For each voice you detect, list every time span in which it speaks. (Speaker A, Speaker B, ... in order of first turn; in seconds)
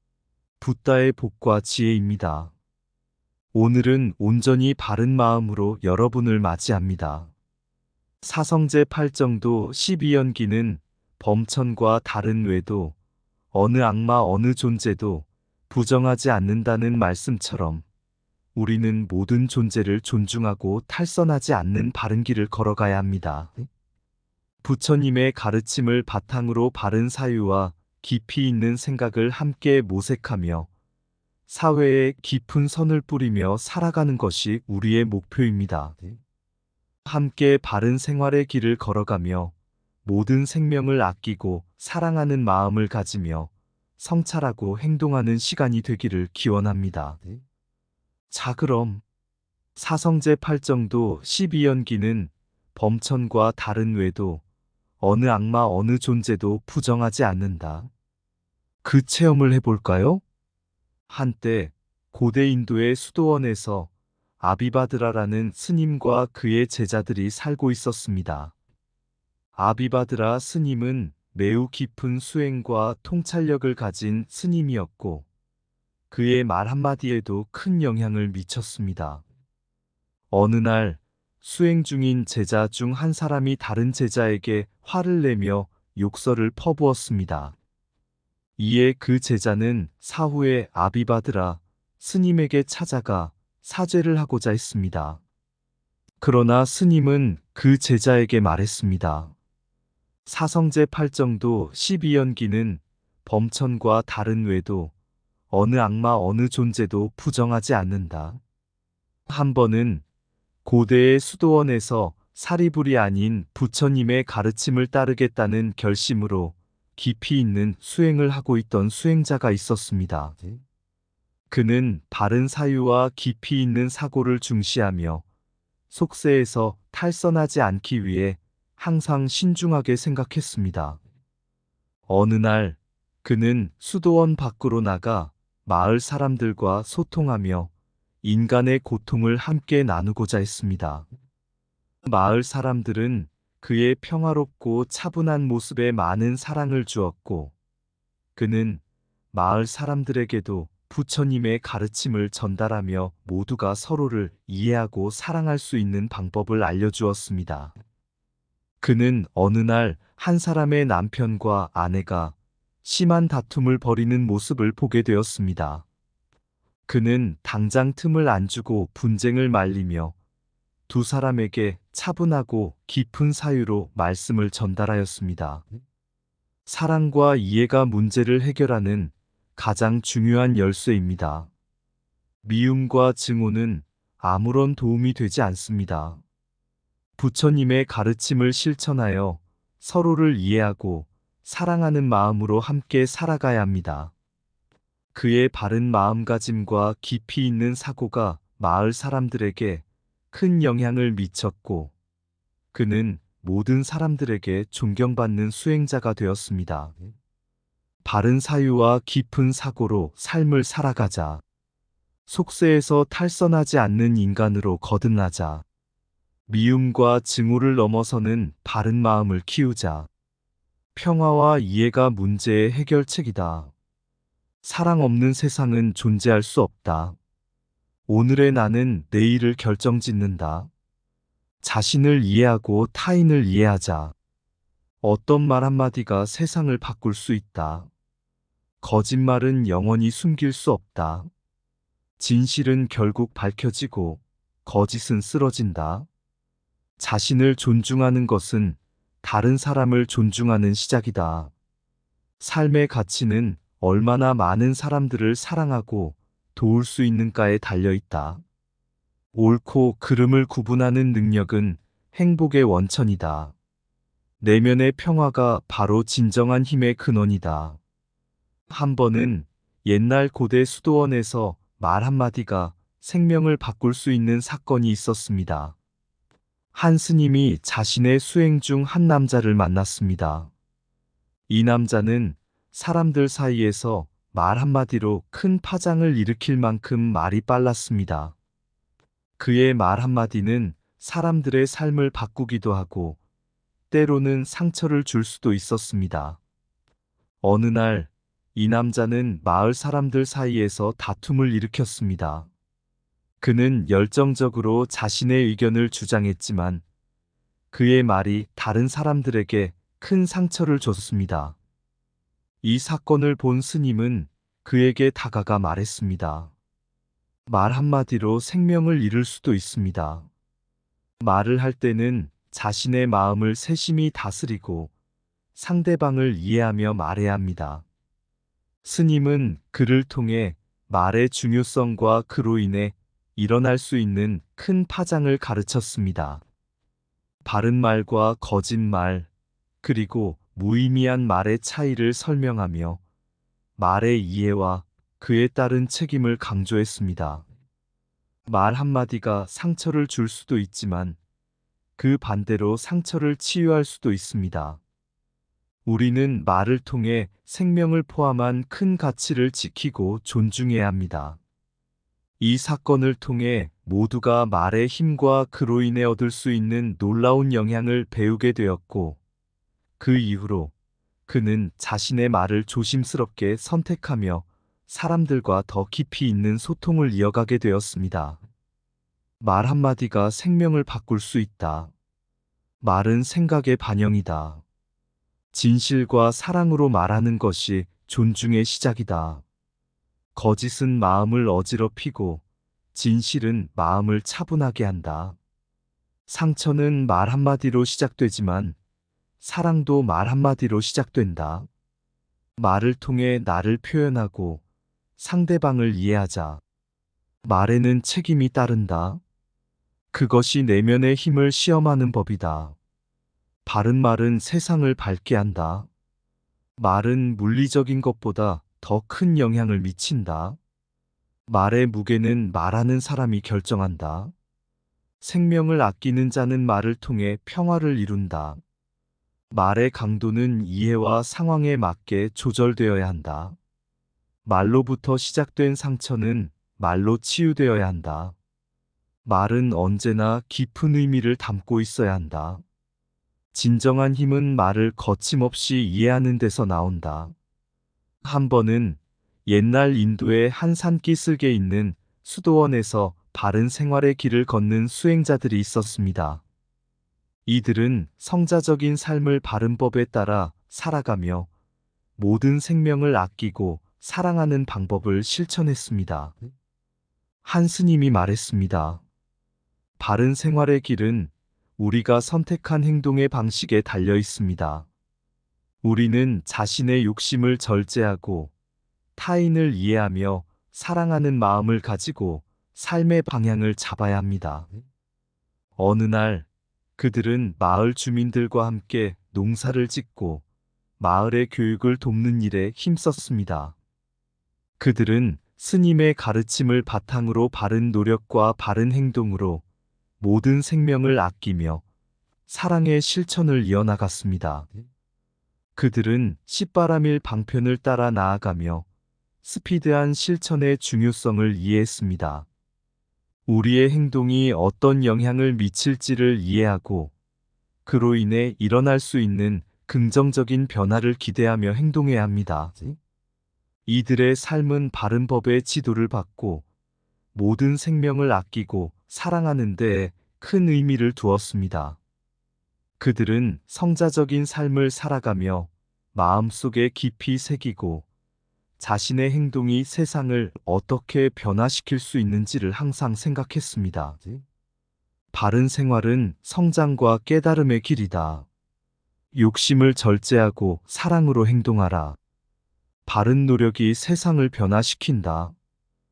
Speaker A: 0.6-2.5, 3.5-7.3, 8.2-12.9, 13.5-17.8, 18.6-23.6, 24.6-30.7, 31.5-36.1, 37.0-39.5, 40.0-47.2, 48.3-49.0, 49.8-54.4, 55.0-57.9, 58.8-60.2, 61.1-68.5, 69.5-75.3, 76.1-79.2, 80.3-87.5, 88.6-95.2, 96.2-99.3, 100.2-104.9, 105.5-108.4, 109.3-110.0, 110.6-120.4, 121.5-125.2, 125.9-131.0, 132.1-137.7, 138.2-141.1, 142.0-147.5, 148.3-148.8, 149.3-157.7, 158.8-165.8, 166.9-170.2, 170.9-175.7, 176.7-181.5, 182.4-186.2, 187.2-194.1, 195.1-201.9, 202.7-206.9, 208.0-211.4, 212.3-215.6, 216.5-220.1, 220.9-223.7, 224.6-227.2, 228.1-230.7, 231.6-234.1, 235.0-237.9, 238.8-241.3, 242.2-246.1, 247.0-251.5, 252.4-258.4, 259.3-263.5, 264.4-267.8, 268.7-275.8, 276.7-280.5, 281.5-288.4, 289.4-293.2, 293.9-296.4, 297.4-302.5, 303.4-306.8, 307.7-311.6, 312.6-316.5, 317.5-320.3, 321.2-324.9, 325.5-327.8, 328.8-336.4, 337.4-339.3, 339.8-343.0, 343.8-347.4, 348.5-351.2, 352.0-354.8, 355.9-361.4, 362.4-369.2, 370.0-370.7, 371.3-378.4, 379.4-381.9, 382.8-384.6, 385.5-389.4, 390.3-392.4, 392.9-395.4, 396.3-398.8, 399.4-401.7, 402.6-404.6, 405.2-406.6, 407.4-409.2, 410.1-412.8, 413.6-415.9, 416.8-420.6, 421.5-424.3, 425.2-428.6, 429.5-433.6, 434.4-438.4, 439.2-442.6, 443.5-447.3, 448.2-456.4, 457.4-461.5, 462.2-466.4, 467.4-469.0, 470.0-474.9, 475.8-478.5, 479.1-484.7, 485.8-490.4, 491.0-493.8, 494.8-499.6, 500.2-501.8, 502.5-504.7, 505.8-508.9, 509.4-512.5, 513.5-517.1, 517.9-523.0, 523.9-526.6, 527.3-532.0, 533.0-538.1, 538.8-544.4, 545.3-548.5, 549.3-552.2, 553.0-555.5